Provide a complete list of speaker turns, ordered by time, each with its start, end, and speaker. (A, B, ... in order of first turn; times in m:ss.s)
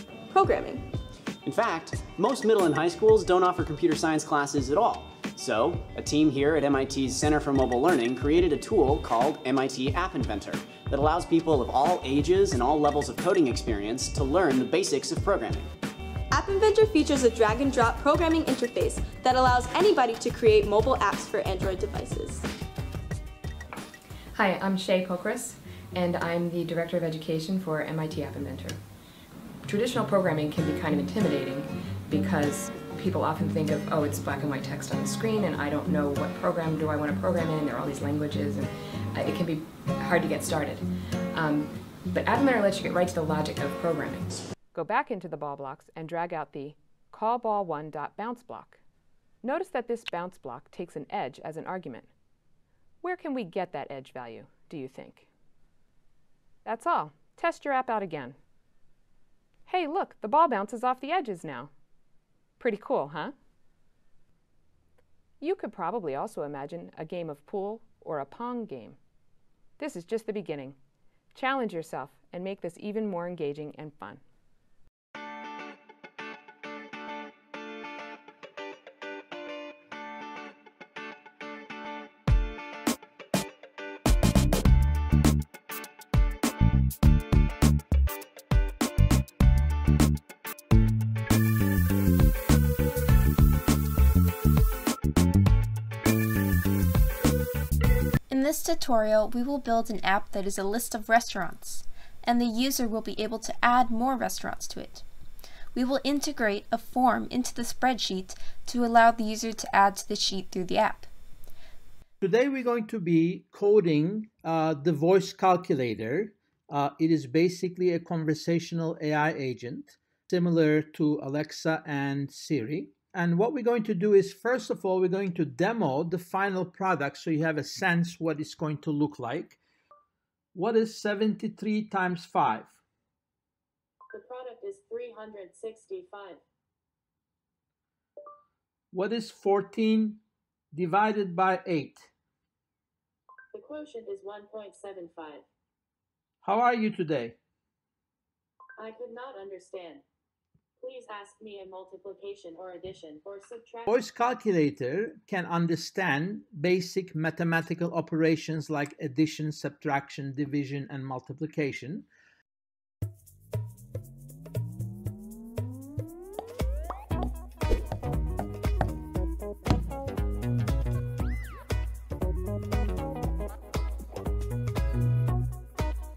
0:00.3-0:00.9 A
0:01.4-0:15.7 B
0:16.3-0:22.4 A
0:24.3-0:28.8 C
0:29.6-0:44.3 C
0:44.7-0:48.8 D
0:49.4-0:52.1 D
0:53.0-0:55.3 D
0:56.6-0:58.4 D
0:59.7-1:01.7 D
1:02.6-1:03.3 D
1:05.4-1:09.0 D
1:09.8-1:10.8 D
1:11.3-1:14.2 D
1:38.3-1:45.0 E
1:45.7-1:51.1 E
1:52.2-2:09.6 F
2:10.5-2:12.8 F
2:14.1-2:16.4 G
2:18.9-2:20.2 F
2:20.7-2:22.1 F
2:23.5-2:25.4 G
2:26.4-2:27.4 F
2:28.8-2:30.0 G
2:30.8-2:33.9 G
2:33.9-2:42.1 F